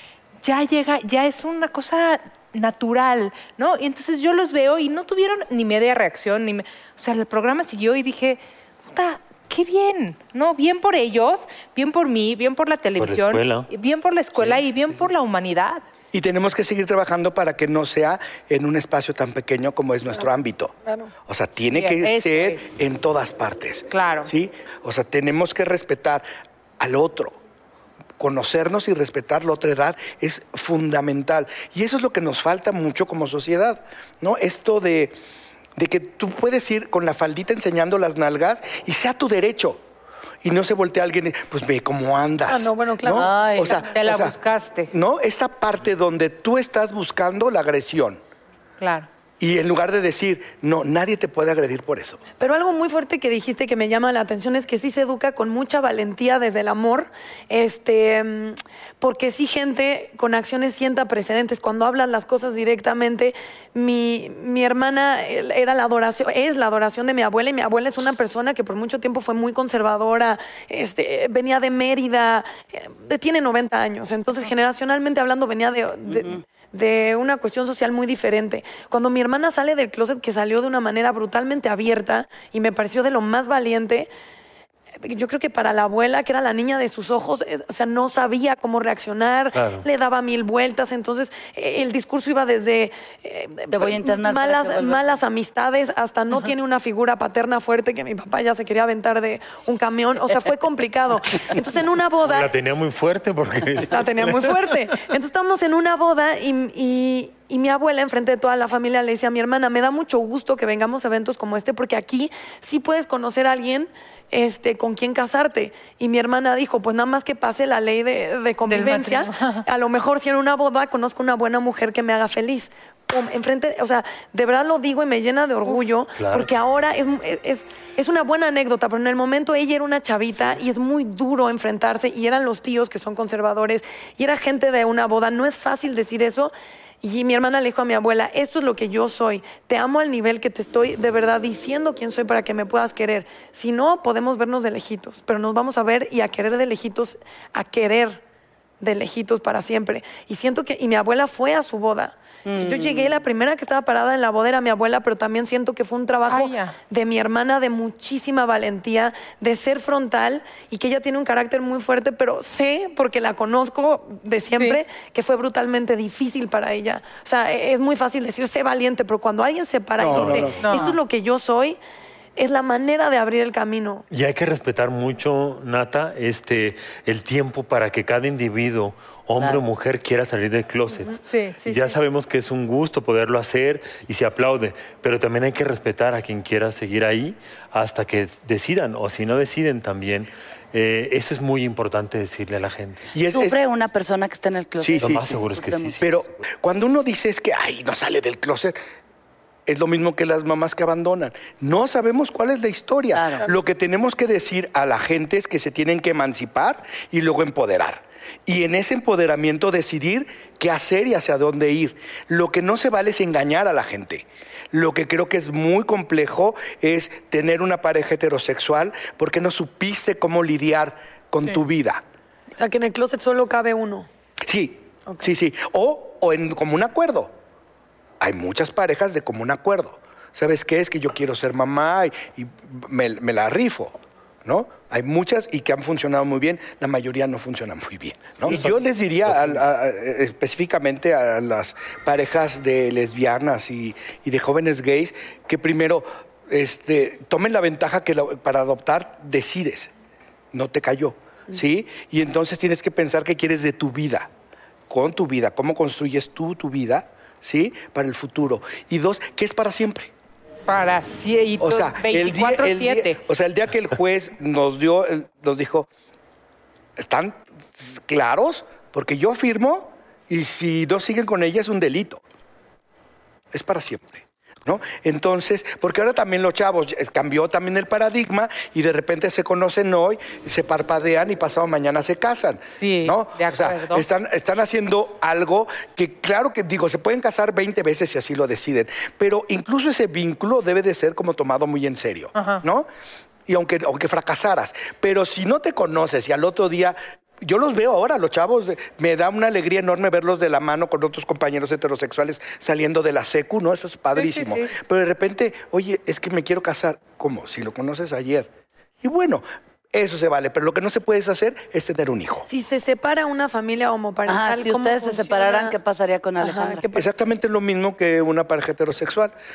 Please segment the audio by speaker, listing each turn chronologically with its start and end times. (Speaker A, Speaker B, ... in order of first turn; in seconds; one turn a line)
Speaker A: 0.4-8.4
Speaker A: 8.9-15.8
Speaker B: 13.0-13.7
Speaker B: 14.4-14.6
Speaker C: 16.1-20.7
Speaker D: 20.9-21.1
Speaker C: 21.3-26.2
Speaker A: 21.7-22.7
Speaker A: 23.9-24.3
Speaker C: 26.8-27.4
Speaker C: 28.2-35.1
Speaker C: 35.8-39.8
Speaker C: 40.4-44.4
Speaker D: 42.5-43.5
Speaker E: 43.1-43.8
Speaker A: 43.9-44.9
Speaker C: 44.9-48.2
Speaker A: 48.8-49.1
Speaker C: 49.4-52.2
Speaker D: 52.4-84.1
Speaker E: 76.1-76.4
Speaker D: 85.0-102.5
Speaker B: 89.5-89.9
Speaker E: 93.7-95.2
Speaker B: 102.2-104.8
Speaker D: 103.9-148.2
Speaker A: 118.7-119.6
Speaker B: 126.2-126.5
Speaker D: 148.8-171.8
Speaker E: 152.4-153.1
Speaker A: 156.3-156.8
Speaker A: 164.6-164.8
Speaker C: 170.0-170.6
Speaker B: 170.1-170.6
Speaker A: 170.6-171.0
Speaker D: 172.4-174.1
Speaker B: 174.1-193.1
Speaker A: 181.1-181.9
Speaker C: 193.1-193.6
Speaker E: 193.3-196.0
Speaker C: 194.8-195.3
Speaker B: 195.0-196.3
Speaker C: 196.0-198.8
Speaker C: 199.7-222.0
Speaker E: 203.1-203.5
Speaker D: 222.6-224.1
Speaker C: 224.4-227.3
Speaker C: 228.2-249.9
Speaker B: 238.4-239.6
Speaker C: 250.5-254.3
Speaker C: 254.9-260.1
Speaker A: 260.7-263.2
Speaker C: 261.6-265.9
Speaker C: 267.0-272.2
Speaker C: 273.5-292.9
Speaker A: 282.7-284.0
Speaker A: 292.4-292.6
Speaker C: 293.5-308.5
Speaker A: 304.1-304.7
Speaker C: 309.0-312.5
Speaker D: 312.5-315.8
Speaker E: 314.3-316.8
Speaker D: 316.4-317.2
Speaker C: 316.9-319.4